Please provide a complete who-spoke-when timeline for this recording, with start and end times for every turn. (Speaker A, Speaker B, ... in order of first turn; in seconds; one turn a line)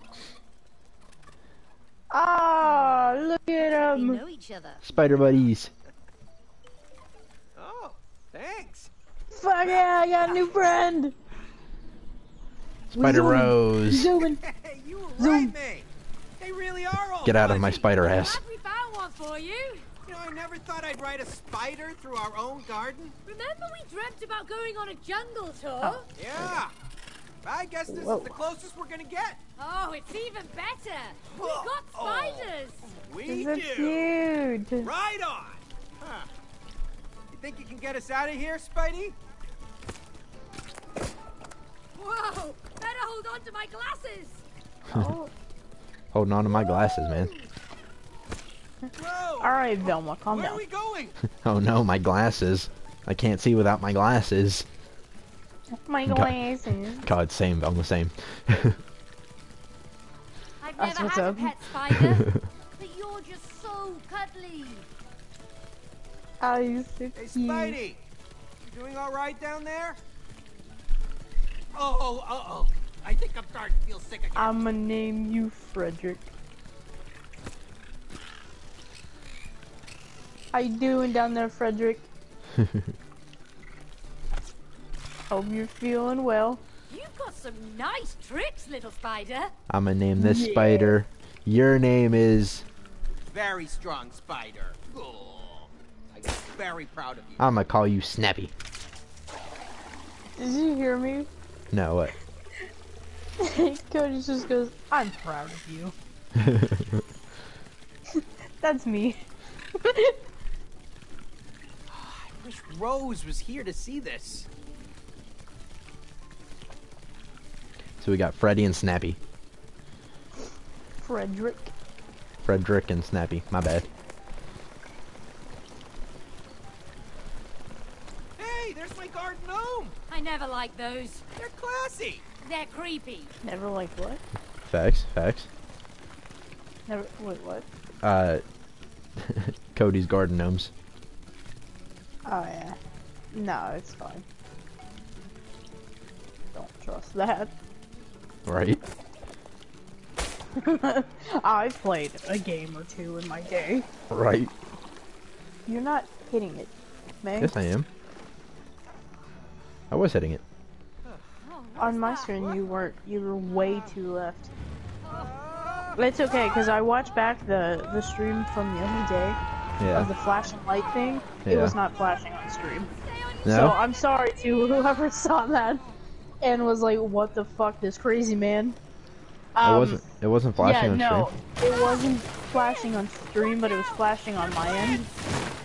Speaker A: 2.1-4.2
Speaker B: 3.9-4.9
Speaker C: 4.8-5.7
Speaker D: 7.6-8.9
Speaker A: 9.3-11.1
Speaker D: 9.6-10.6
Speaker C: 12.9-14.1
Speaker A: 12.9-14.4
Speaker D: 14.4-17.9
Speaker A: 15.2-15.6
Speaker C: 17.2-18.4
Speaker B: 17.9-19.9
Speaker D: 20.1-23.1
Speaker B: 23.3-26.1
Speaker A: 25.8-26.6
Speaker D: 26.1-26.7
Speaker D: 27.4-29.4
Speaker A: 27.9-28.4
Speaker B: 29.6-32.9
Speaker D: 31.3-32.5
Speaker D: 33.0-34.1
Speaker A: 33.2-34.9
Speaker D: 34.8-36.3
Speaker D: 37.3-39.1
Speaker B: 42.0-44.4
Speaker C: 44.9-45.1
Speaker A: 44.9-45.3
Speaker C: 46.1-47.3
Speaker D: 48.9-51.1
Speaker A: 49.4-50.6
Speaker C: 51.4-54.6
Speaker A: 55.9-57.1
Speaker C: 56.0-56.4
Speaker C: 57.0-58.8
Speaker B: 60.6-64.9
Speaker A: 60.8-61.5
Speaker C: 61.9-62.4
Speaker A: 66.4-67.8
Speaker D: 67.2-68.0
Speaker D: 68.6-70.0
Speaker D: 71.7-74.5
Speaker A: 74.3-76.3
Speaker A: 80.5-82.1
Speaker C: 82.5-82.9
Speaker A: 85.3-86.6
Speaker B: 86.9-89.5
Speaker C: 89.7-92.6
Speaker A: 90.2-91.0
Speaker D: 93.3-97.5
Speaker C: 97.4-98.5
Speaker A: 100.4-101.3
Speaker C: 101.7-102.1
Speaker A: 103.4-105.9
Speaker C: 106.3-107.0
Speaker A: 108.1-109.2
Speaker A: 109.8-110.2
Speaker D: 111.9-114.5
Speaker C: 118.0-119.2
Speaker A: 121.0-121.7
Speaker C: 122.4-123.9
Speaker D: 128.4-129.9
Speaker B: 130.1-131.2
Speaker D: 131.4-132.2
Speaker B: 132.4-133.3
Speaker A: 133.4-134.2
Speaker C: 134.6-135.5
Speaker A: 136.9-137.7
Speaker C: 138.0-138.4
Speaker C: 139.2-140.7
Speaker A: 142.3-142.8
Speaker A: 143.3-144.2
Speaker A: 146.5-147.5
Speaker C: 148.4-148.8
Speaker A: 150.6-153.9
Speaker C: 154.1-154.5
Speaker A: 155.7-157.6
Speaker C: 157.4-157.9
Speaker C: 159.9-160.4
Speaker D: 161.0-161.3
Speaker B: 161.4-162.7
Speaker A: 161.8-164.5
Speaker D: 165.1-166.0
Speaker A: 165.9-169.4
Speaker C: 169.8-170.1
Speaker A: 169.9-172.9
Speaker C: 171.4-171.8
Speaker B: 172.9-175.1
Speaker C: 173.4-173.8
Speaker A: 173.4-175.8
Speaker A: 176.4-178.8
Speaker A: 179.6-180.0
Speaker C: 179.6-181.3
Speaker A: 180.6-185.1
Speaker B: 181.6-183.0
Speaker D: 183.4-185.2